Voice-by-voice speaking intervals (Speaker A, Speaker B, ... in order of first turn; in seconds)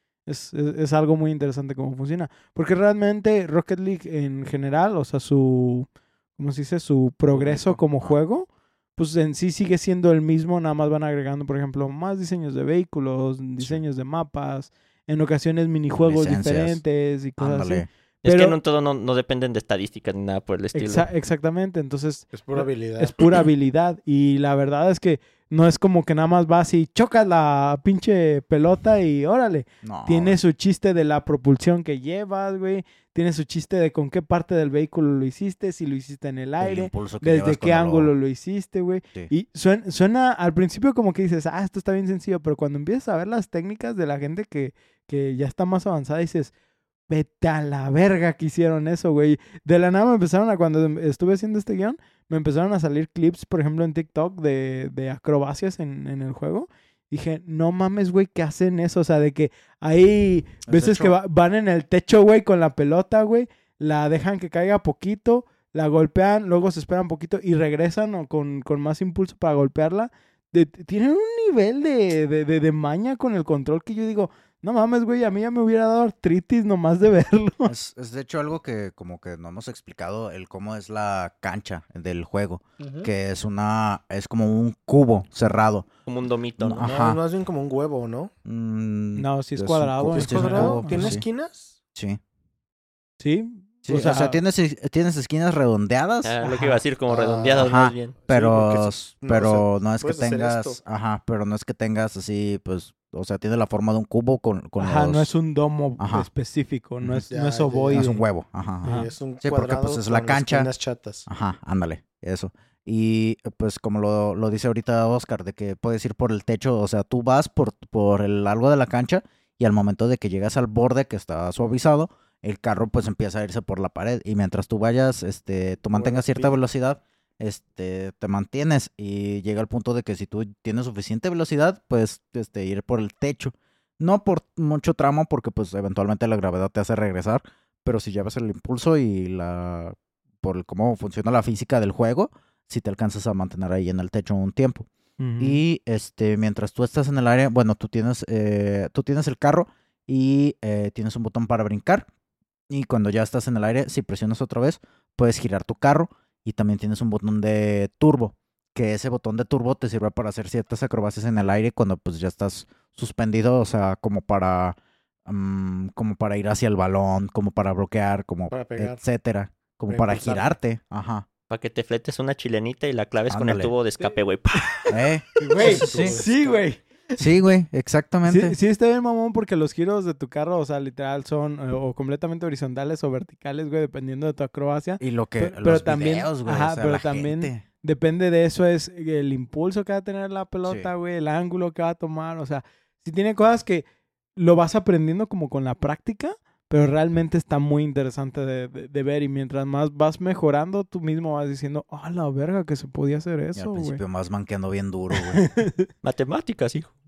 Speaker A: 0.3-18.6, 20.8-46.5, 47.1-77.7, 89.2-91.2, 93.2-94.4, 96.4-96.8, 104.8-108.2, 108.8-109.1, 145.2-145.6, 174.8-176.8, 178.2-204.0, 205.4-205.9
Speaker B: 7.3-8.2, 16.0-16.8, 17.4-17.9, 29.8-30.4, 36.6-38.1, 60.7-61.2, 77.7-85.9, 86.6-87.2, 88.5-91.2, 92.0-92.2, 93.8-96.3, 97.6-105.3, 106.0-106.3, 107.9-110.7, 111.3-144.9, 145.4-152.1, 152.7-171.3, 173.3-173.7, 174.9-176.2, 177.2-178.6, 185.0-187.6, 190.7-190.9, 203.6-205.5
Speaker C: 18.2-21.1, 86.1-86.9, 96.2-98.2, 171.5-174.9, 206.0-206.9
Speaker D: 22.3-23.2, 82.8-83.1, 86.8-88.3, 90.1-91.8, 97.1-100.8, 107.3-108.2, 108.8-111.3, 125.9-126.5, 168.5-169.0, 169.9-170.5, 175.6-176.6